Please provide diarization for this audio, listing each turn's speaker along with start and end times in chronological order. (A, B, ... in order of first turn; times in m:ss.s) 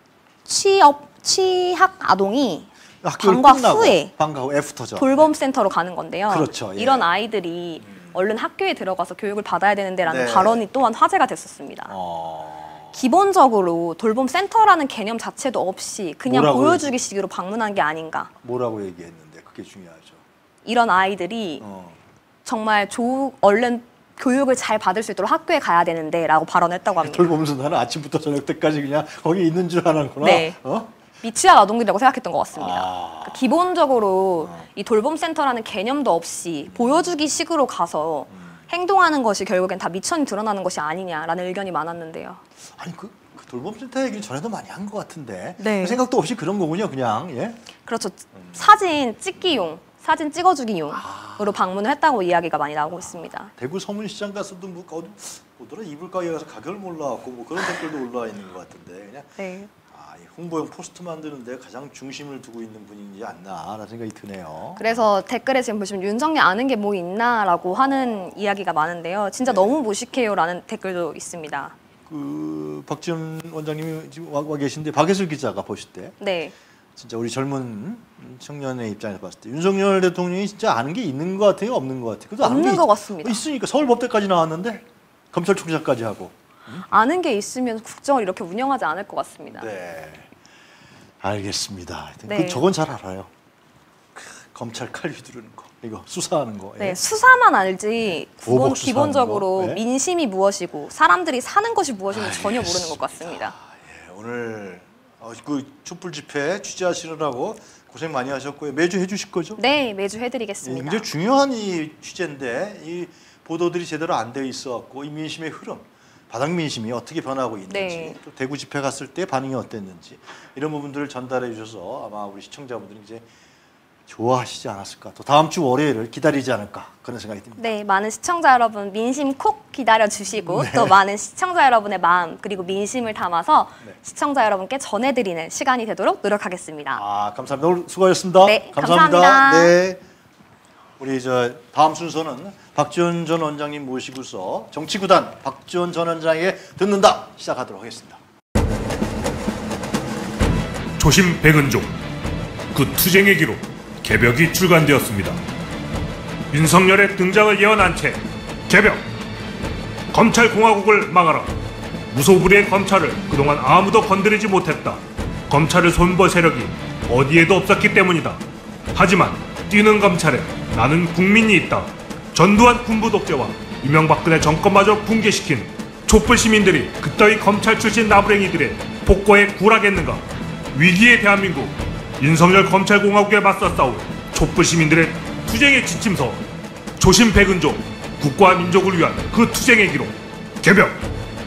0:00.4-0:04.1 A
0:03.0-0:05.3 B
0:05.0-0:11.9 A
0:06.3-0:07.0 B
0:07.8-0:08.1 B
0:10.0-0:10.6 B
0:11.9-0:13.0 B
0:12.9-0:18.3 A
0:16.3-0:16.9 B
0:18.4-0:20.2 B
0:20.6-0:21.6 A
0:21.6-0:22.0 B
0:22.4-0:27.3 A
0:27.0-0:30.9 B
0:30.2-0:30.6 A
0:31.2-0:42.4 A
0:32.6-0:33.5 B
0:34.4-0:34.7 B
0:36.7-0:37.1 B
0:42.7-0:47.6 B
0:45.6-0:46.0 A
0:47.8-0:53.5 A
0:48.3-0:48.6 B
0:50.9-0:51.6 B
0:53.5-1:05.0 B
0:59.4-0:59.7 A
1:04.8-1:11.7 A
1:12.1-1:16.2 B
1:16.2-1:16.5 A
1:17.0-1:26.9 B
1:22.4-1:23.4 A
1:26.8-1:29.7 A
1:29.5-1:30.3 B
1:31.2-1:33.3 B
1:32.2-1:32.6 A
1:34.1-1:37.0 B
1:36.8-1:43.5 A
1:38.0-1:39.8 B
1:42.1-1:49.6 B
1:49.6-1:51.0 A
1:50.6-2:03.2 B
1:57.7-1:58.2 A
2:04.1-2:07.6 B
2:07.6-2:17.0 A
2:10.4-2:11.0 B
2:16.9-2:20.0 B
2:18.4-2:19.7 A
2:21.0-2:28.2 B
2:31.0-2:31.9 C
2:32.7-2:35.4 C
2:36.5-2:39.0 C
2:40.1-2:41.5 C
2:42.1-2:48.4 C
2:48.9-3:06.4 C
3:07.0-3:11.0 C